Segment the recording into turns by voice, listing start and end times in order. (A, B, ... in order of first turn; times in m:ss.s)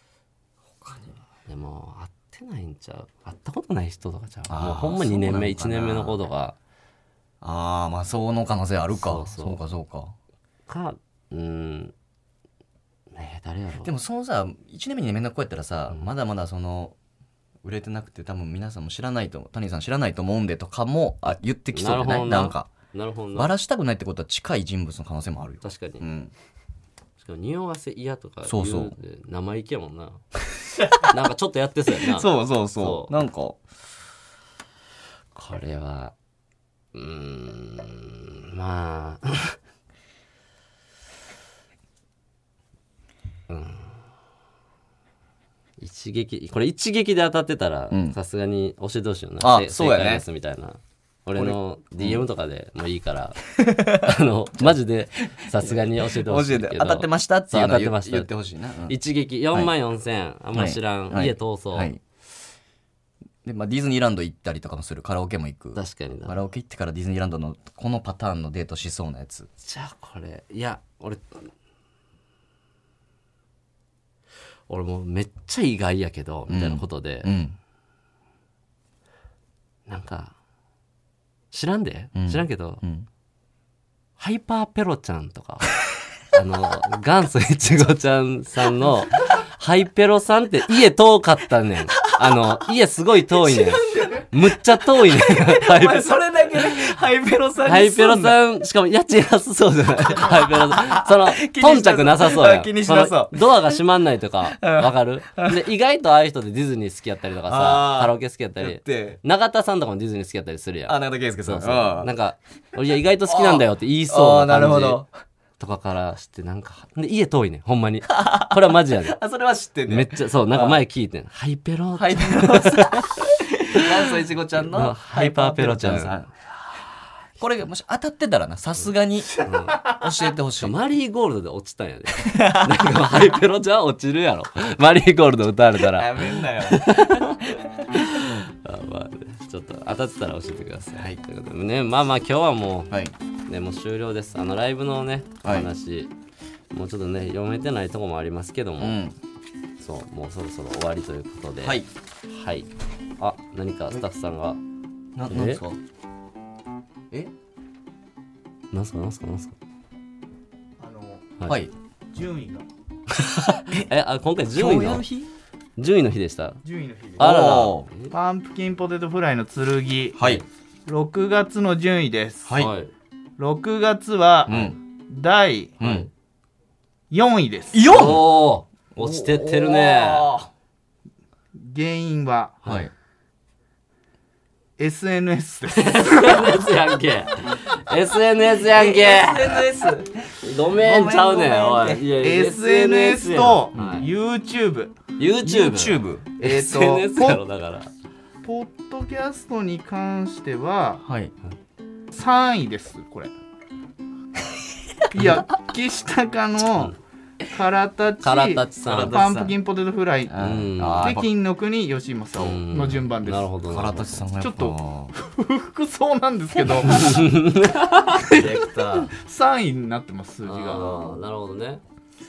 0:00.7-0:01.2 A
0:01.5-0:06.6 B
0:04.5-0:06.2 A
0:07.4-0:10.2 A
0:08.9-0:09.6 B
0:10.7-0:11.9 B
0:13.1-0:13.9 B
0:13.8-0:17.0 A
0:17.6-0:22.7 A
0:21.7-0:23.5 B
0:23.4-0:26.3 A
0:25.6-0:26.0 B
0:27.2-0:30.2 B
0:28.4-0:28.9 A
0:31.0-0:33.2 B
0:31.9-0:33.6 A
0:35.4-0:36.1 B
0:36.9-0:39.6 B
0:43.5-0:44.0 B
0:45.8-0:53.4 B
0:47.9-0:48.2 A
0:49.4-0:50.2 A
0:51.4-0:52.2 A
0:53.5-0:54.7 A
0:53.9-0:58.3 B
0:55.3-0:59.0 A
0:58.9-1:01.9 B
1:00.5-1:02.0 A
1:03.4-1:09.5 A
1:05.8-1:06.4 B
1:09.6-1:11.5 B
1:14.7-1:17.3 B
1:16.5-1:17.6 A
1:19.9-1:20.4 B
1:21.5-1:22.8 B
1:22.2-1:23.1 A
1:24.2-1:25.7 B
1:26.3-1:37.0 B
1:32.2-1:32.4 A
1:33.4-1:34.2 A
1:35.0-1:38.4 A
1:37.6-1:55.0 B
1:40.1-1:43.7 A
1:44.5-1:45.6 A
1:47.5-1:49.2 A
1:50.9-1:52.1 A
1:53.3-1:55.1 A
1:55.6-1:59.2 B
1:58.1-2:00.8 A
1:59.9-2:06.2 B
2:02.0-2:06.5 A
2:07.4-2:10.8 A
2:09.4-2:10.0 B
2:10.6-2:23.0 B
2:12.2-2:12.9 A
2:15.8-2:17.7 A
2:20.9-2:21.2 A
2:23.5-2:26.1 B
2:25.4-2:25.7 A
2:26.7-2:29.0 B
2:28.8-2:29.2 A
2:29.8-2:34.6 B
2:35.2-2:35.8 A
2:35.3-2:35.6 B
2:38.7-2:39.6 B
2:40.8-2:41.3 C
2:41.5-2:41.7 A
2:42.1-2:42.6 C
2:43.1-2:45.1 B
2:44.6-2:45.3 A
2:45.8-2:46.6 B
2:46.6-2:47.3 C
2:47.2-2:47.9 A
2:47.2-2:48.1 B
2:48.1-2:50.3 C
2:50.2-2:50.4 A
2:50.9-2:52.6 C
2:52.5-2:52.7 A
2:52.5-2:52.9 B
2:53.4-2:56.0 C
2:54.5-2:54.8 A
2:55.8-2:56.1 A
2:55.8-2:56.1 B
2:57.1-2:57.9 C
2:57.7-2:58.2 A
2:57.9-3:00.3 B
2:59.0-3:00.5 A
3:01.5-3:02.6 C
3:02.6-3:02.9 A
3:04.8-3:06.6 C
3:05.8-3:09.8 B
3:08.6-3:12.1 A
3:10.4-3:14.1 B
3:12.2-3:15.0 C
3:13.8-3:14.0 A
3:15.2-3:17.9 B
3:15.4-3:16.3 A
3:16.4-3:17.4 C
3:18.4-3:21.0 C
3:21.0-3:21.3 A
3:22.1-3:23.3 C
3:25.1-3:30.4 C
3:28.2-3:29.2 B
3:28.8-3:29.5 A
3:30.3-3:31.3 A
3:30.4-3:31.2 B
3:31.0-3:33.5 C
3:32.4-3:34.2 B
3:33.7-3:35.1 A
3:34.4-3:37.3 C
3:36.9-3:38.4 B
3:38.3-3:41.2 C
3:38.3-3:39.1 A
3:40.5-3:41.8 B